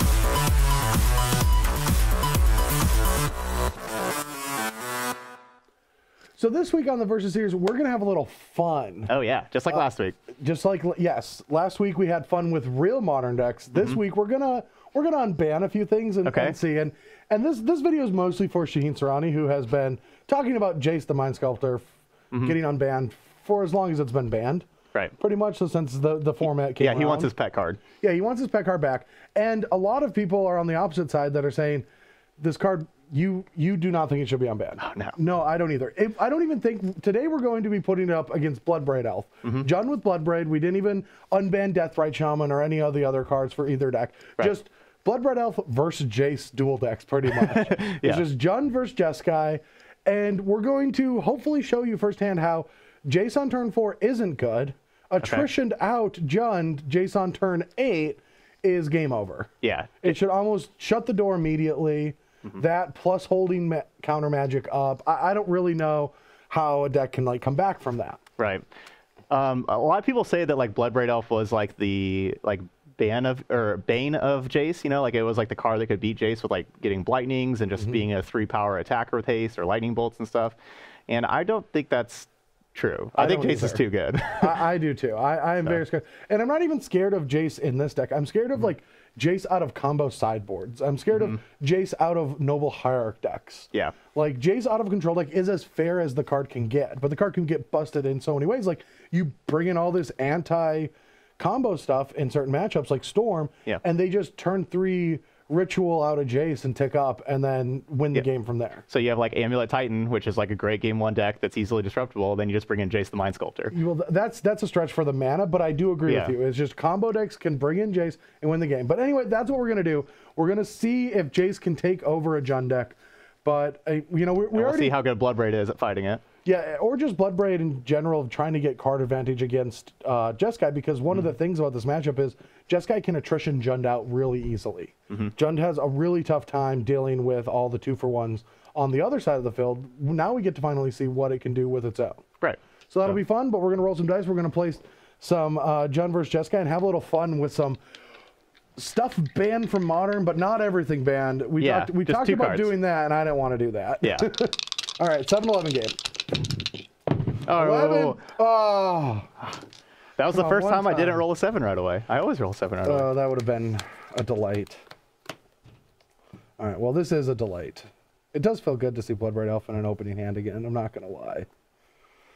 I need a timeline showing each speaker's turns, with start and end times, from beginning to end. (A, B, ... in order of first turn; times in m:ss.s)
0:06.4-0:09.1 A
0:09.1-0:10.2 B
0:09.7-0:27.3 A
0:13.7-0:14.0 B
0:16.2-0:16.6 B
0:26.8-0:27.8 B
0:28.0-0:31.9 A
0:32.4-1:08.2 A
0:34.8-0:35.2 B
0:39.4-0:39.7 B
0:47.3-0:48.2 B
0:55.2-0:55.5 B
0:59.6-1:00.2 B
1:08.4-1:08.7 B
1:09.3-1:20.6 B
1:21.1-1:24.6 B
1:23.1-1:48.8 A
1:31.1-1:31.4 B
1:48.9-1:53.7 B
1:53.7-2:05.0 A
1:56.1-1:56.3 B
2:04.5-2:06.2 B
2:06.4-2:22.2 A
2:22.4-2:23.1 B
2:22.9-2:27.8 A
2:28.8-2:36.5 A
2:31.6-2:32.8 B
2:34.0-2:34.3 B
2:37.4-2:39.3 A
2:37.4-2:38.2 B
2:40.2-2:43.1 B
2:40.3-2:41.2 A
2:42.8-2:44.8 A
2:46.6-2:51.5 A